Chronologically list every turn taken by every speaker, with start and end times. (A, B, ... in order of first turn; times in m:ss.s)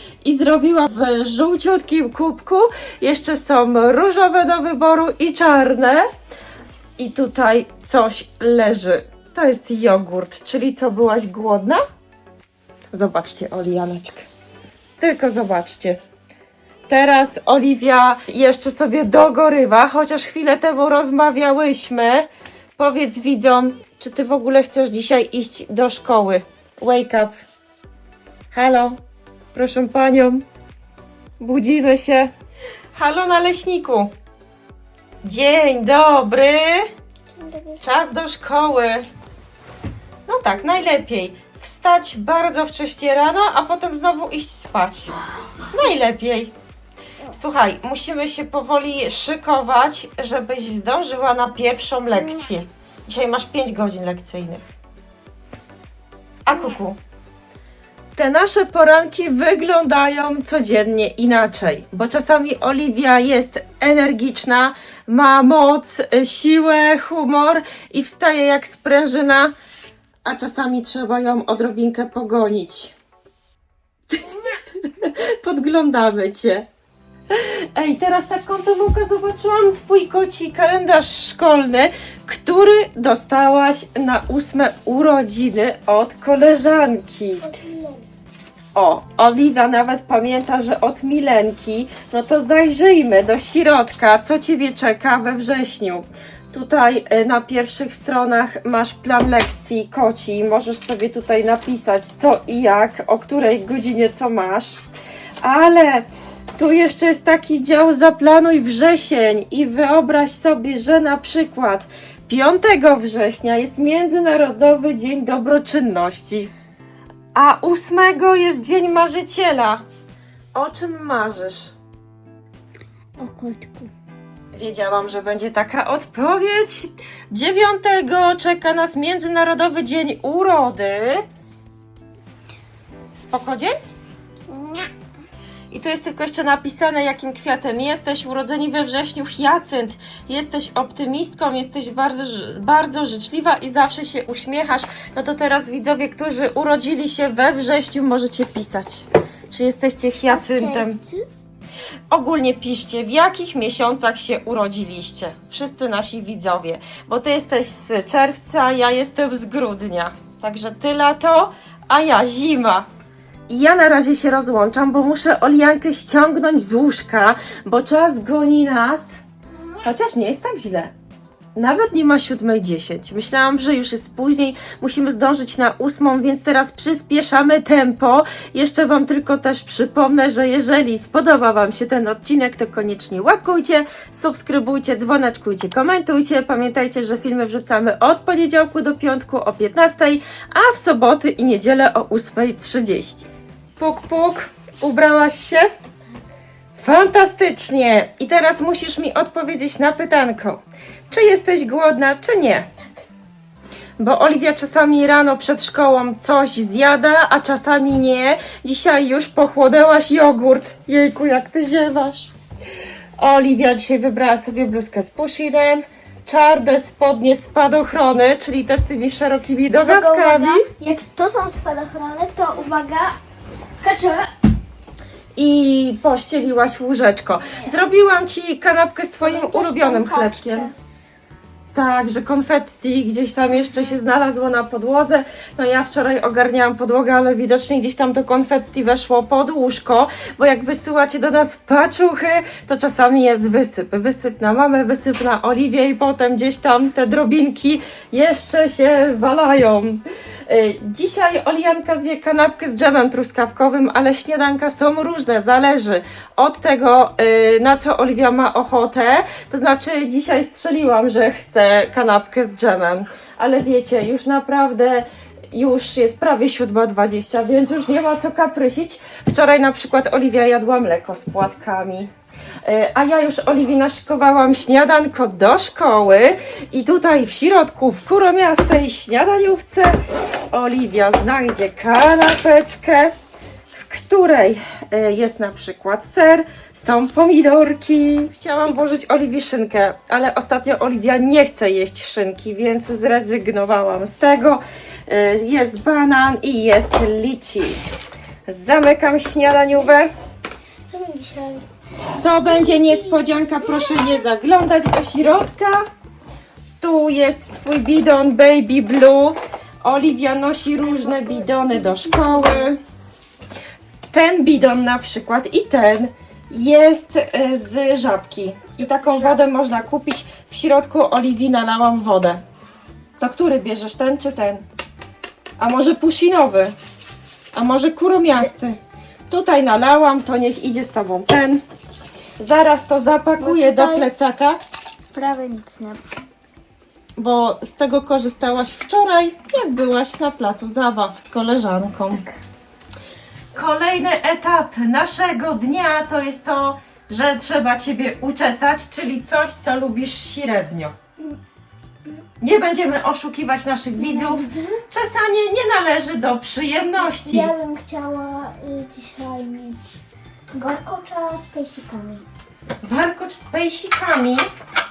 0:00.2-0:06.1 A
0:07.0-0:11.8 A
0:12.9-0:14.3 A
0:15.0-0:16.0 A
0:16.9-0:27.4 A
0:28.5-0:29.0 A
0:29.5-0:30.4 A
0:31.4-0:32.3 A
0:32.9-0:34.1 A
0:35.2-0:36.9 A
0:37.3-0:37.8 B
0:37.8-0:39.0 A
0:40.3-0:45.1 A
0:45.7-0:46.5 A
0:47.3-0:54.6 A
0:52.2-0:52.4 B
0:56.4-0:57.0 A
0:56.5-0:56.8 B
0:58.2-1:09.5 A
1:10.2-1:12.9 A
1:14.1-1:16.6 A
1:17.3-1:27.5 A
1:27.4-1:28.1 B
1:28.7-1:44.8 A
1:45.4-1:56.5 A
1:57.3-1:59.8 A
2:00.5-2:01.7 A
2:03.2-2:03.9 B
2:04.5-2:11.2 A
2:13.1-2:13.8 A
2:14.5-2:14.9 B
2:15.7-2:31.0 A
2:30.3-2:31.2 B
2:32.1-2:42.9 A
2:43.5-2:49.2 A
2:49.5-2:49.8 B
2:49.8-2:50.9 A
2:51.6-3:15.7 A
3:16.8-3:22.7 A
3:22.8-3:23.0 B
3:24.0-3:32.3 A
3:33.2-3:40.7 A
3:39.8-3:43.2 B
3:43.7-3:44.3 B
3:45.4-3:50.7 A
3:47.5-3:47.7 B
3:49.2-3:50.9 B
3:51.7-4:32.1 A
4:32.6-4:40.0 A
4:40.5-4:43.1 A
4:43.7-4:57.9 A
4:58.5-5:00.1 A
5:00.9-5:01.6 B
5:02.2-5:05.9 A
5:02.4-5:04.2 B
5:06.8-5:12.8 A
5:10.9-5:12.7 B
5:14.1-5:22.4 A
5:18.8-5:19.4 B
5:23.2-5:24.6 A
5:25.6-5:26.7 A
5:27.5-5:28.8 A
5:29.3-5:31.6 A
5:32.4-5:34.6 A
5:33.4-5:34.1 B
5:35.1-5:36.0 B
5:37.2-5:42.2 A
5:42.1-5:42.4 B
5:43.5-5:50.9 A
5:52.4-5:57.5 A
5:54.0-5:54.8 B
5:57.0-6:00.0 B
6:00.5-6:02.2 B
6:02.8-6:04.4 A